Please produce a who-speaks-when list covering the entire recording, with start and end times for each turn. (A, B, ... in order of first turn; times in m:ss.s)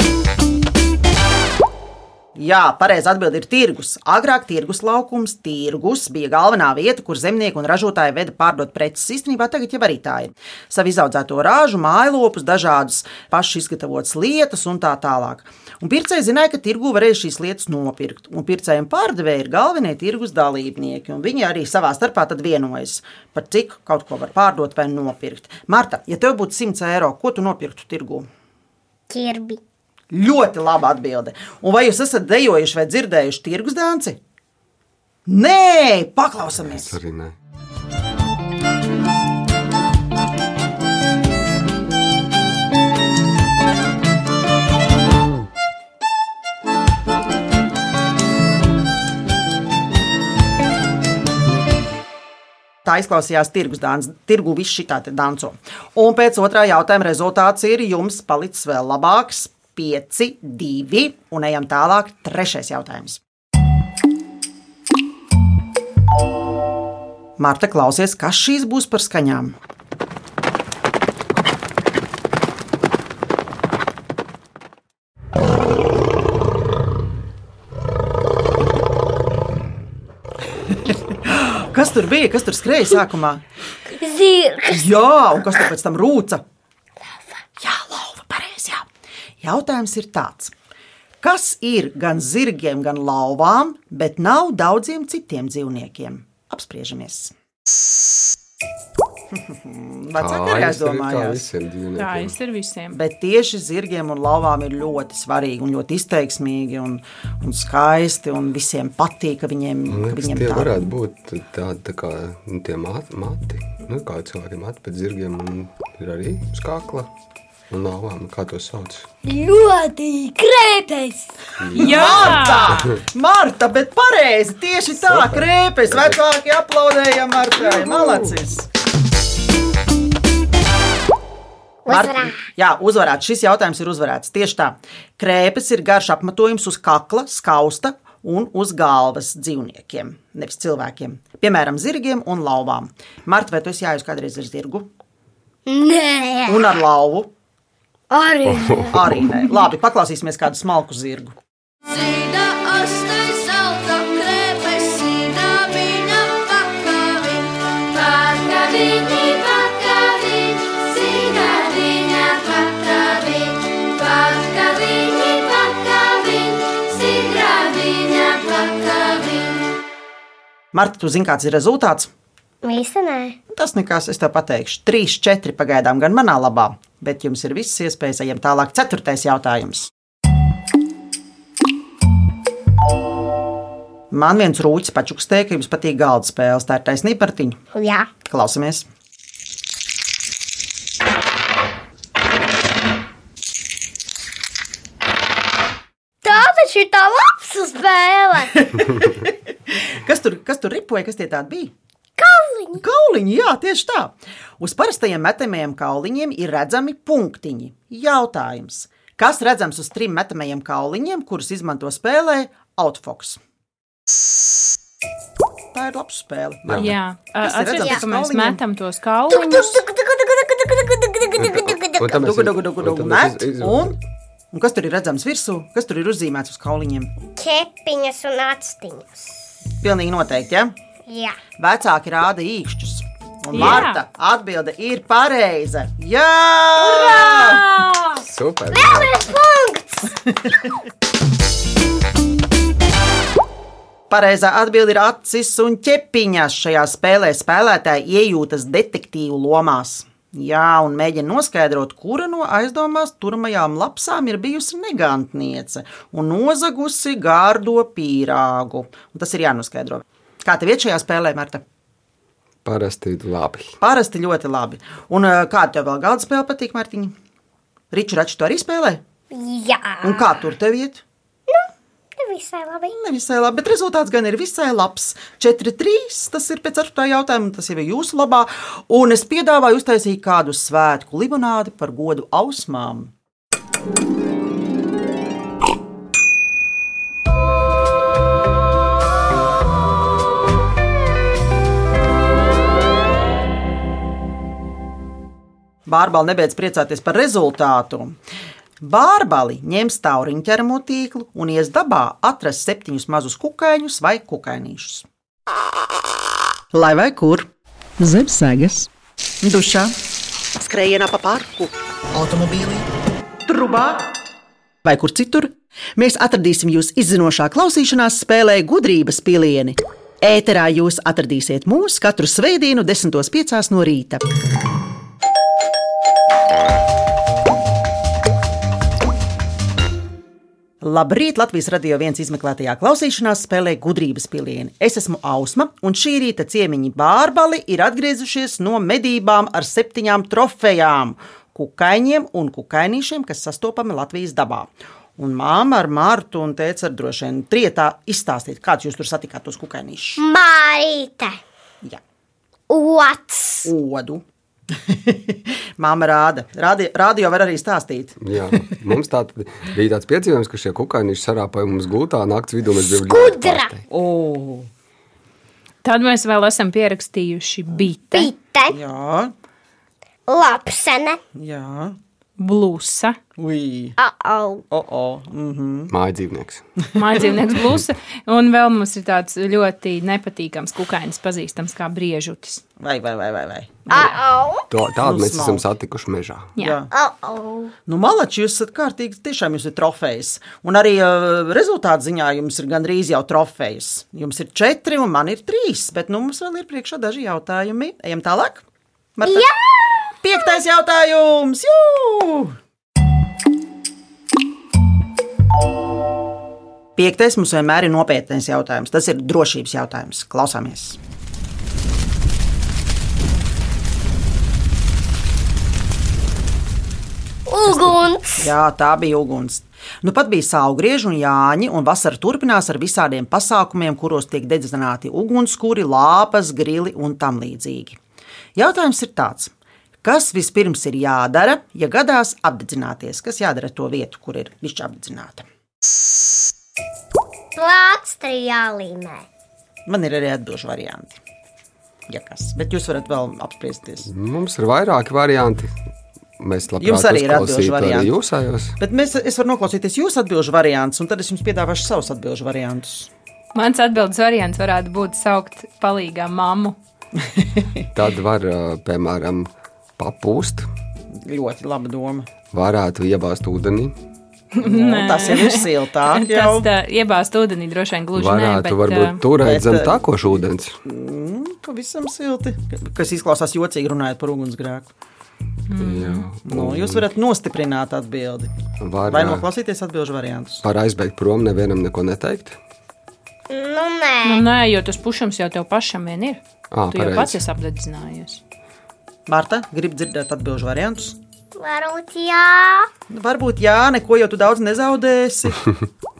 0:02.3-0:28.3 A
0:29.1-0:29.6 B
0:30.1-0:34.2 A
0:35.2-0:36.9 A
0:36.5-0:37.4 C
0:52.8-1:03.2 A
1:07.4-1:09.6 A
1:20.7-1:23.4 A
1:23.9-1:25.0 B
1:24.7-1:26.4 A
1:27.6-1:28.9 A
1:29.4-1:30.5 A
1:31.2-1:37.3 A
1:39.3-1:41.4 A
1:40.1-1:42.3 C
1:42.0-1:43.0 D
1:42.9-1:50.9 A
1:49.9-1:57.1 C
1:57.7-1:59.1 C
1:59.2-2:01.2 B
2:01.6-2:02.9 C
2:01.7-2:08.7 A
2:01.8-2:02.9 D
2:05.0-2:06.2 C
2:07.7-2:08.3 C
2:11.8-2:12.4 B
2:11.9-2:24.9 A
2:25.6-2:26.8 B
2:26.5-2:27.3 A
2:28.1-2:29.6 B
2:28.5-2:29.2 C
2:28.9-2:31.4 A
2:31.9-2:49.7 E
2:50.7-2:52.1 A
2:52.6-2:53.4 B
2:53.5-2:59.9 A
3:04.1-3:07.6 A
3:07.7-3:08.1 B
3:08.2-3:08.9 A
3:16.2-3:18.7 B
3:18.7-3:21.7 A
3:22.2-3:22.8 B
3:22.8-3:33.4 A
3:35.7-3:38.6 A
3:36.6-3:36.9 C
3:36.7-3:39.8 D
3:39.3-3:42.2 B
3:41.4-3:44.0 C
3:42.1-3:44.0 A
3:44.5-3:47.1 A
3:47.3-3:49.3 B
3:49.8-3:50.7 A
3:51.1-3:51.4 B
3:51.6-3:57.6 A
3:53.5-3:54.0 D
3:53.6-3:53.8 C
3:56.8-3:58.2 B
3:58.2-3:59.1 C
3:58.7-4:00.2 B
4:04.1-4:21.6 A
4:22.6-4:23.8 C
4:23.8-4:27.1 A
4:27.9-4:29.0 A
4:29.3-4:30.4 B
4:30.0-4:31.0 A
4:31.5-4:33.0 B
4:33.0-4:43.1 A
4:55.8-4:58.2 A
4:58.8-5:05.0 A
5:06.7-5:07.5 A
5:08.0-5:08.9 A
5:09.4-5:09.9 A
5:10.6-5:12.9 A
5:13.4-5:14.1 A
5:14.8-5:24.2 A
5:30.8-5:50.2 A
5:50.2-5:51.4 B
5:52.7-5:53.7 B
5:53.6-5:58.6 A
5:58.2-6:03.8 C
6:02.9-6:03.7 B
6:03.9-6:04.7 A
6:05.8-6:08.3 D
6:08.1-6:08.8 B
6:08.7-6:09.3 A
6:10.3-6:11.2 B
6:11.4-6:12.0 A
6:12.4-6:13.2 D
6:13.4-6:13.9 A
6:14.0-6:14.6 B
6:14.7-6:15.9 A
6:15.9-6:16.6 C
6:17.0-6:22.6 D
6:22.8-6:24.2 A
6:23.9-6:24.7 B
6:24.7-6:26.5 C
6:25.0-6:25.6 A
6:26.6-6:26.9 A
6:26.9-6:27.7 B
6:27.9-6:38.6 A
6:39.2-6:39.5 A
6:39.2-6:40.6 B
6:40.2-6:42.5 A
6:47.0-6:51.0 A
6:57.5-6:58.5 B
6:57.7-7:08.0 A
7:08.6-7:15.4 A
7:17.6-7:19.2 B
7:19.9-7:21.2 A
7:22.1-7:24.1 A
7:24.0-7:25.7 C
7:26.4-7:28.8 C
7:26.8-7:28.1 A
7:28.8-7:33.1 A
7:33.5-7:36.8 D
7:37.4-7:37.8 A
7:37.9-7:40.7 C
7:41.2-7:42.3 A
7:42.5-7:43.9 C
7:44.5-7:49.2 D
7:44.6-7:46.7 A
7:48.1-7:50.8 C
7:49.4-7:54.9 A
7:55.7-7:56.3 D
7:55.8-7:57.1 C
7:56.4-7:58.5 A
7:58.8-7:59.4 C
7:59.1-8:00.6 A
8:00.6-8:02.6 C
8:03.5-8:04.4 B
8:04.2-8:08.4 D
8:06.7-8:07.4 C
8:09.3-8:11.2 A
8:11.6-8:12.9 B
8:13.1-8:15.7 A